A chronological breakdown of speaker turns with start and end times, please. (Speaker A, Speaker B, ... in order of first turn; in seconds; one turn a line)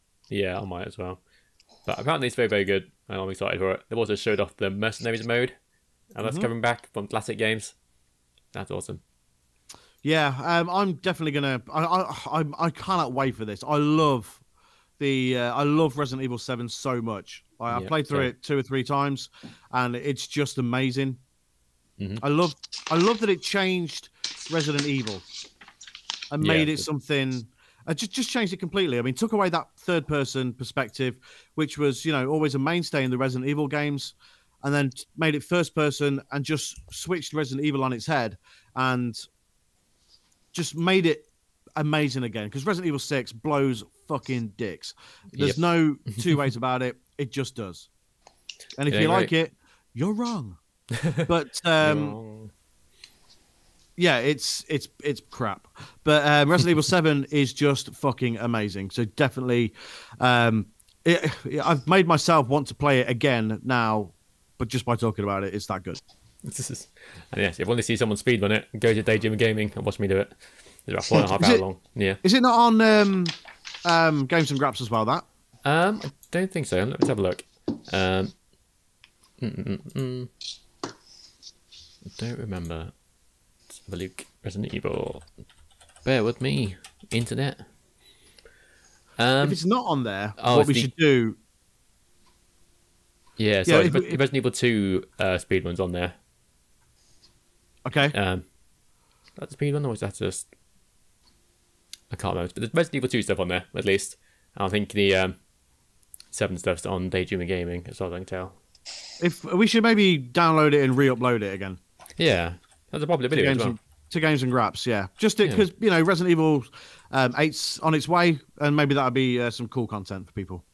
Speaker A: 0.3-1.2
Speaker A: 1.9-5.5
Speaker A: 6.1-7.8
Speaker A: 8.5-9.0
Speaker B: 10.0-14.4
Speaker B: 15.0-21.2
Speaker A: 17.7-18.3
Speaker B: 22.2-25.2
Speaker B: 26.3-39.2
Speaker A: 26.4-26.9
Speaker B: 40.5-47.9
Speaker A: 45.4-46.3
Speaker B: 48.8-50.6
Speaker A: 48.9-49.3
Speaker B: 51.2-52.2
Speaker A: 51.8-52.5
Speaker B: 54.0-66.0
Speaker A: 66.4-72.2
Speaker B: 71.2-71.7
Speaker B: 72.2-75.2
Speaker A: 75.6-78.3
Speaker A: 79.4-80.3
Speaker A: 82.1-82.9
Speaker A: 83.8-85.3
Speaker A: 86.0-87.6
Speaker A: 89.2-89.6
Speaker B: 89.4-91.4
Speaker A: 90.4-90.9
Speaker A: 93.4-96.2
Speaker B: 93.7-94.2
Speaker B: 97.8-98.1
Speaker A: 98.1-98.5
Speaker A: 99.4-100.5
Speaker A: 102.1-105.4
Speaker A: 106.3-108.5
Speaker B: 109.2-111.8
Speaker A: 112.2-113.8
Speaker B: 113.3-120.6